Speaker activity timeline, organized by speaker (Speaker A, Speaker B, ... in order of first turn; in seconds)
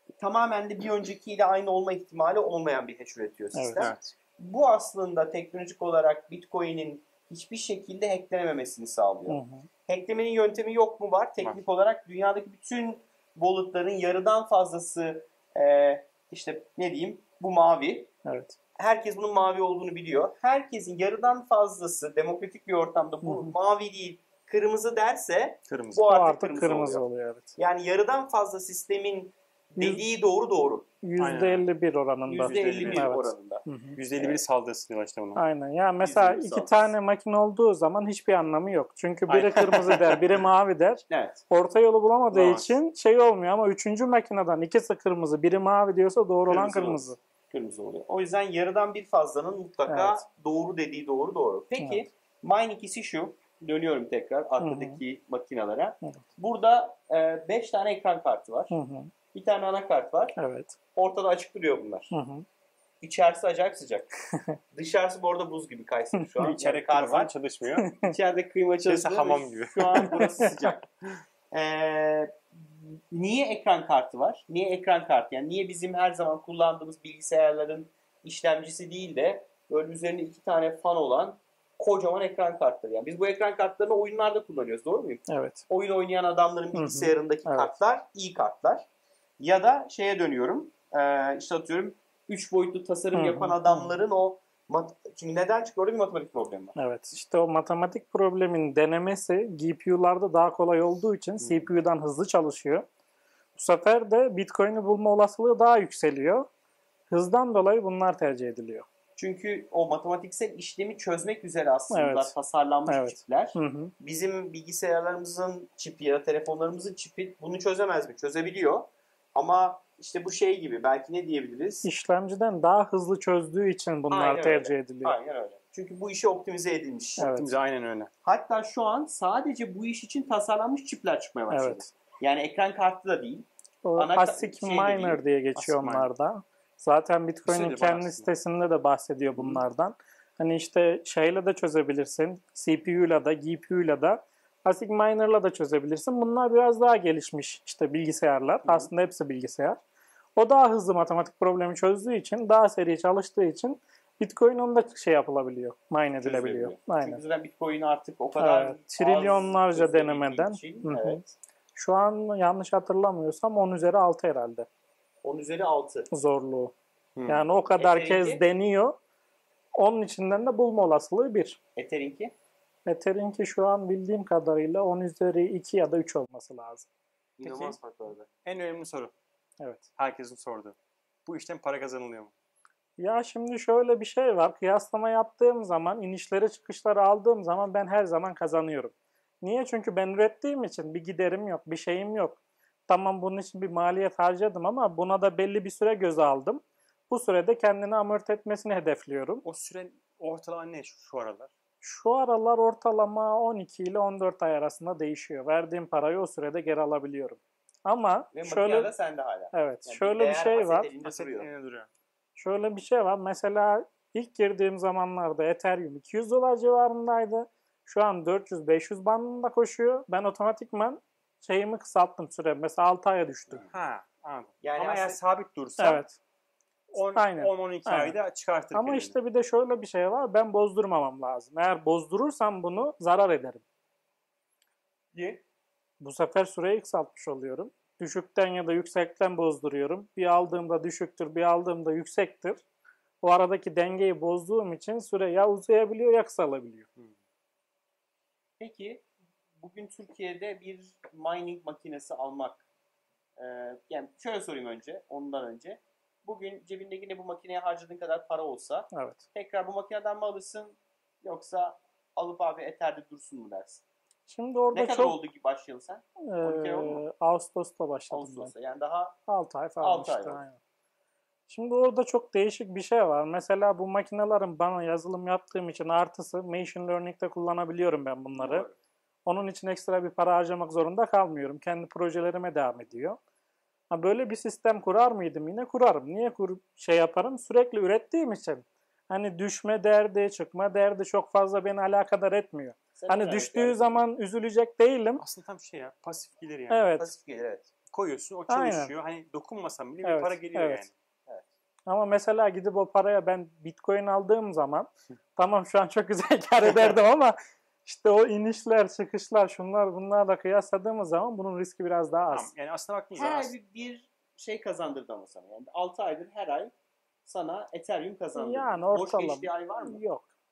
Speaker A: 0.2-18.1, 18.8-27.0, 27.6-30.9, 32.3-34.4, 36.0-36.9, 41.1-41.4, 46.5-58.7, 59.3-60.4, 60.9-62.1, 63.0-64.1, 64.7-67.3, 68.0-70.8, 71.5-88.9, 89.4-96.7, 109.2-121.9, 124.1-127.3, 128.2-135.2, 156.2-161.3, 165.2-166.1, 167.6-168.4, 171.8-172.3, 177.4-178.3, 208.3-211.5, 224.6-225.2, 235.1-235.4, 248.6-249.1, 249.6-252.6, 253.4-263.8, 264.7-267.0, 268.1-269.2, 269.8-270.4, 278.3-278.8, 293.0-294.0, 297.0-297.7, 313.1-316.7, 317.2-320.0
Speaker B: 3.5-3.9, 9.3-9.7, 18.2-18.5, 23.2-23.5, 26.1-27.5, 29.8-30.0, 31.0-34.0, 35.4-47.2, 49.9-50.2, 54.6-55.0, 58.7-59.1, 60.4-60.8, 62.1-62.4, 67.8-68.1, 69.9-70.7, 85.3-85.6, 86.7-87.7, 93.1-93.9, 96.7-102.8, 103.5-106.5, 107.1-108.8, 111.9-112.3, 112.9-113.9, 121.8-125.2, 127.2-127.5, 131.5-131.9, 133.8-149.8, 150.3-157.2, 158.3-161.2, 161.8-164.7, 166.1-166.7, 167.3-168.9, 169.8-171.6, 172.8-176.9, 179.6-179.9, 183.0-199.4, 201.8-208.9, 209.5-210.9, 212.3-223.6, 225.8-226.2, 227.1-228.2, 228.7-233.6, 236.0-242.6, 243.2-246.9, 258.9-259.2, 264.3-265.2, 266.3-268.5, 269.3-270.6, 271.5-278.6, 279.2-283.2, 283.9-295.2, 296.7-297.1, 298.5-298.9, 300.0-300.9, 301.9-307.3, 307.9-312.5, 318.3-320.3
Speaker C: 3.8-4.1, 25.7-26.0, 31.2-31.6, 32.4-33.1, 34.0-35.4, 39.3-40.2, 42.3-42.8, 66.4-67.9, 68.8-70.4, 127.2-128.1, 135.6-136.1, 137.4-138.3, 167.2-167.4, 177.4-177.8, 178.4-179.1, 180.0-182.3, 199.4-201.5, 211.0-211.9, 223.7-226.0, 226.9-229.1, 295.2-296.9, 297.9-300.9, 312.3-313.5